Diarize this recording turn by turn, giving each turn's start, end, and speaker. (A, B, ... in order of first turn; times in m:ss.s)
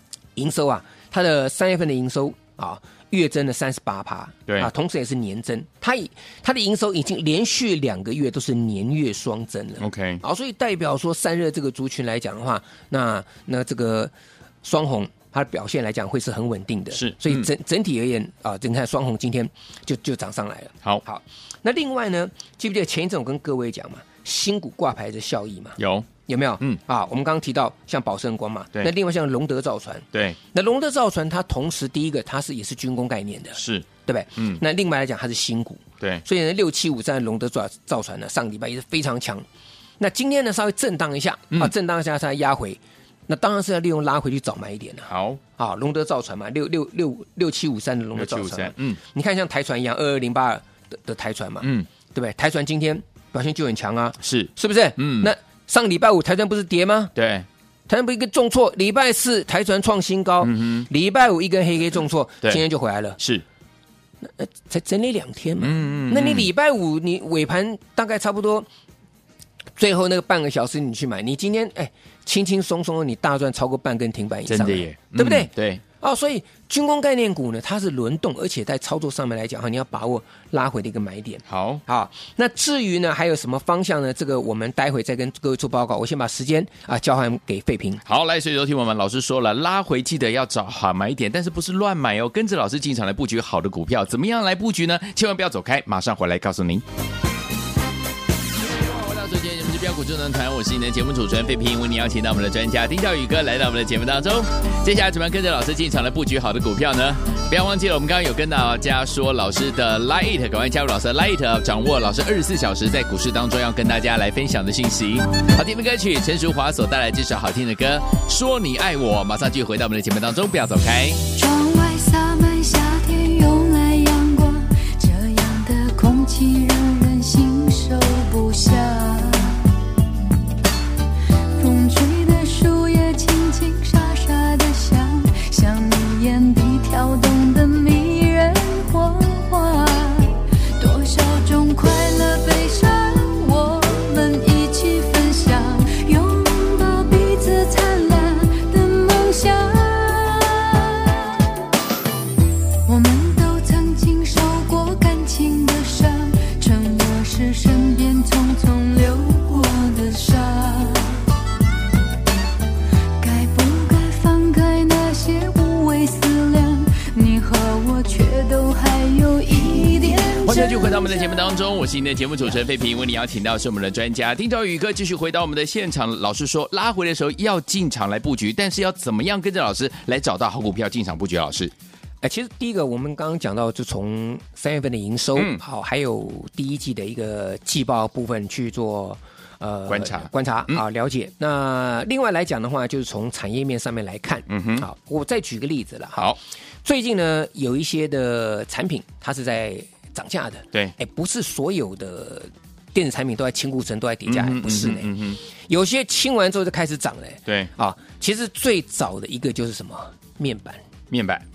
0:00.4-0:14.1 A
0:09.8-0:10.2 B
0:14.6-0:39.4 A
0:16.9-0:17.5 B
0:25.8-0:26.1 B
0:30.1-0:30.4 B
0:33.6-0:34.6 B
0:40.0-0:57.1 A
0:45.1-0:45.4 B
0:48.2-0:49.0 B
0:51.6-0:51.9 B
0:54.2-0:55.3 B
0:57.2-0:57.5 B
0:57.9-1:03.2 A
1:00.4-1:00.9 B
1:03.2-1:03.4 B
1:04.2-1:08.7 A
1:05.6-1:06.5 B
1:09.8-1:28.0 A
1:14.5-1:15.8 B
1:21.5-1:21.8 B
1:28.0-1:36.8 B
1:38.6-2:01.3 B
2:01.4-2:09.6 C
2:11.6-2:31.7 C
2:32.9-2:41.2 C
2:43.2-2:51.5 C
2:50.4-3:01.7 B
3:02.2-3:16.3 A
3:05.4-3:05.6 B
3:09.9-3:10.8 B
3:14.5-3:14.8 B
3:16.8-3:30.8 A
3:24.3-3:25.4 B
3:31.1-3:31.4 B